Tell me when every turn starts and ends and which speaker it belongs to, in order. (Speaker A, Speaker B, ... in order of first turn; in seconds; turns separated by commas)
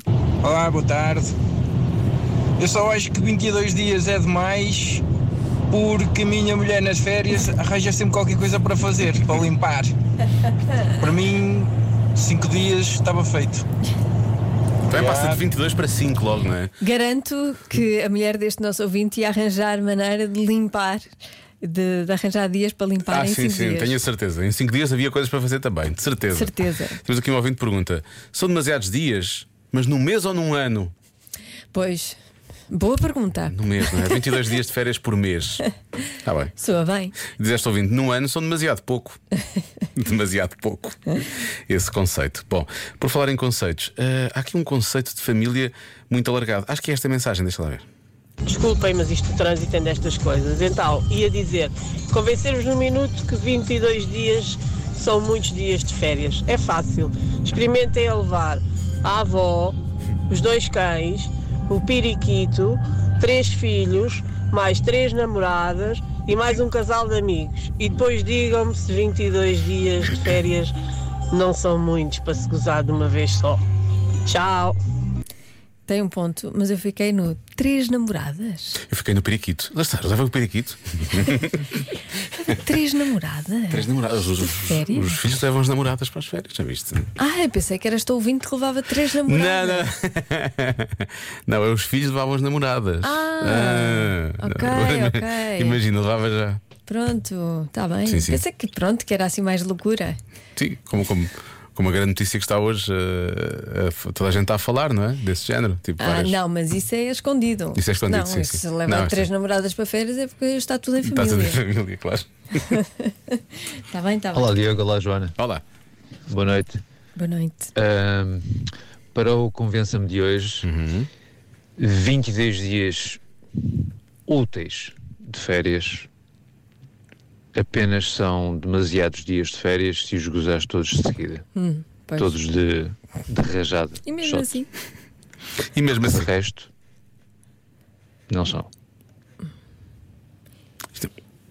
Speaker A: 0.4-1.3, Speaker A: 2.6-5.0, Speaker A: 5.7-9.9, Speaker A: 10.9-13.6, Speaker B: 14.9-16.7, Speaker A: 14.9-15.4, Speaker C: 16.8-21.0, Speaker C: 21.6-24.0, Speaker B: 23.1-30.9, Speaker C: 26.3-27.0, Speaker C: 31.7-32.1, Speaker C: 32.7-34.3, Speaker B: 33.5-35.6, Speaker B: 36.2-36.5, Speaker C: 36.5-37.1, Speaker B: 37.2-39.2, Speaker B: 39.9-41.0, Speaker B: 41.7-47.9, Speaker D: 48.4-59.8, Speaker D: 60.3-70.7, Speaker D: 71.3-73.6, Speaker D: 74.2-74.8, Speaker C: 75.9-78.8, Speaker B: 78.8-81.7, Speaker C: 82.3-85.2, Speaker B: 83.7-87.1, Speaker C: 87.2-89.9, Speaker B: 89.2-96.6, Speaker C: 93.0-95.8, Speaker C: 96.8-100.2, Speaker B: 98.1-98.4, Speaker B: 100.5-106.4, Speaker C: 106.0-111.6, Speaker B: 107.7-109.2, Speaker B: 111.0-112.6, Speaker C: 112.8-114.5, Speaker E: 114.3-115.3, Speaker B: 115.4-115.6, Speaker E: 116.3-116.8, Speaker C: 117.1-117.7, Speaker E: 117.7-120.7, Speaker B: 120.6-121.1, Speaker E: 121.8-123.2, Speaker E: 124.2-126.1, Speaker E: 127.5-131.4, Speaker C: 131.5-132.3, Speaker E: 132.2-134.5, Speaker C: 134.0-134.7, Speaker B: 135.7-136.3, Speaker E: 136.0-136.7, Speaker E: 138.3-138.7